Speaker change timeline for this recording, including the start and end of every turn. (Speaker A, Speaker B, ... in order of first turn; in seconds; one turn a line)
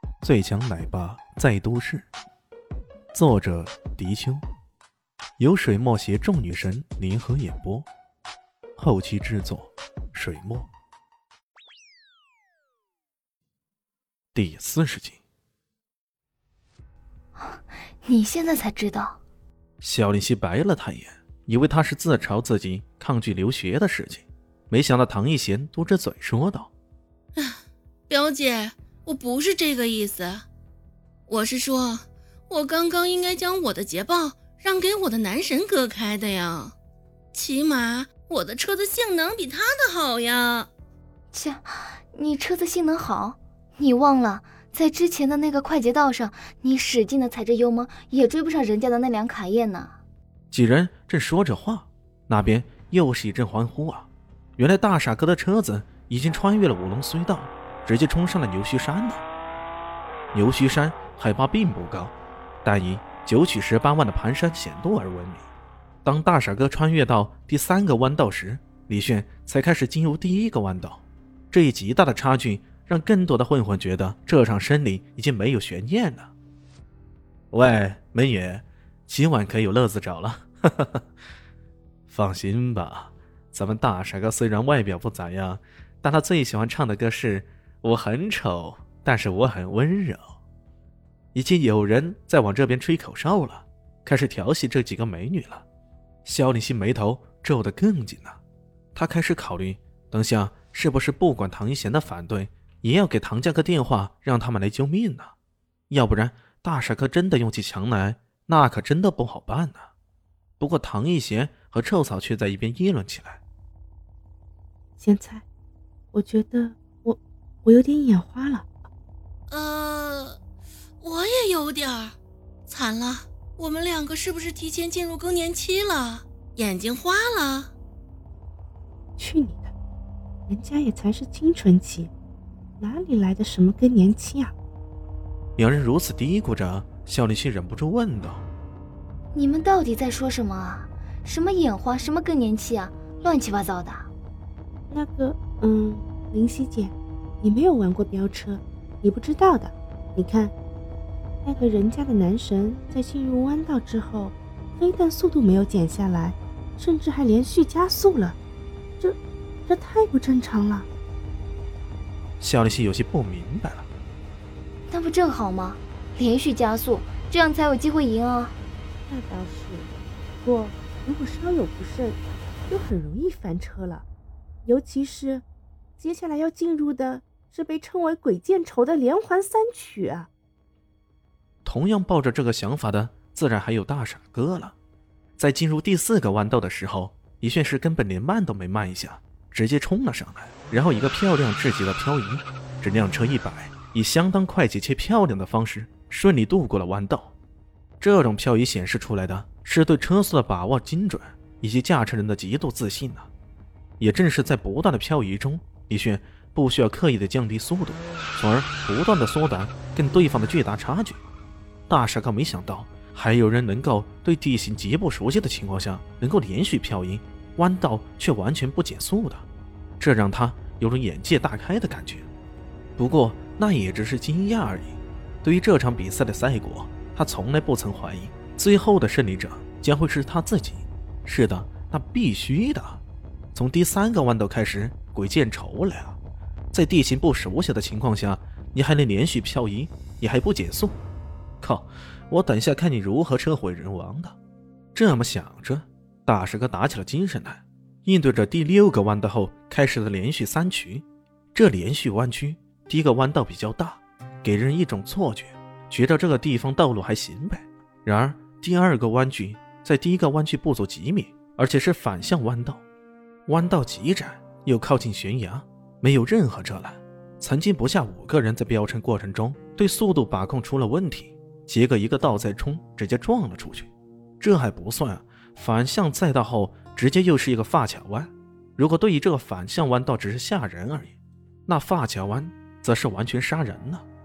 Speaker A: 0.2-2.1
Speaker A: 3.1-4.4
Speaker A: 5.4-7.9
Speaker A: 8.8-10.7
Speaker A: 14.3-15.2
Speaker B: 17.4-19.2
Speaker A: 19.8-26.7
Speaker C: 27.4-30.4
Speaker C: 31.3-36.8
Speaker C: 37.3-40.7
Speaker B: 41.3-50.0
Speaker A: 50.5-59.2
Speaker A: 60.3-65.5
Speaker A: 66.0-76.3
Speaker A: 77.5-81.0
Speaker A: 82.1-90.2
Speaker A: 91.3-95.7
Speaker A: 96.2-98.4
Speaker A: 99.0-105.3
Speaker A: 105.9-109.9
Speaker A: 110.6-113.4
Speaker D: 115.0-115.5
Speaker D: 116.1-118.9
Speaker C: 119.5-120.4
Speaker C: 121.0-122.2
Speaker C: 122.7-127.7
Speaker D: 129.2-129.7
Speaker D: 130.5-132.1
Speaker D: 132.8-134.5
Speaker A: 135.6-138.4
Speaker B: 139.3-144.1
Speaker D: 144.9-150.5
Speaker D: 151.4-158.4
Speaker D: 159.0-160.9
Speaker A: 162.4-163.9
Speaker B: 164.9-168.6
Speaker D: 169.1-169.9
Speaker D: 170.4-174.1
Speaker D: 174.7-175.4
Speaker D: 176.0-180.3
Speaker A: 181.7-184.8
Speaker A: 185.4-197.3
Speaker A: 198.0-203.3
Speaker A: 204.0-211.2
Speaker A: 211.9-219.4
Speaker A: 220.0-222.3
Speaker A: 223.0-233.0
Speaker A: 233.5-236.2
Speaker A: 236.7-241.0
Speaker A: 241.6-244.4
Speaker A: 244.9-262.8
Speaker A: 263.5-281.2
Speaker A: 281.7-284.0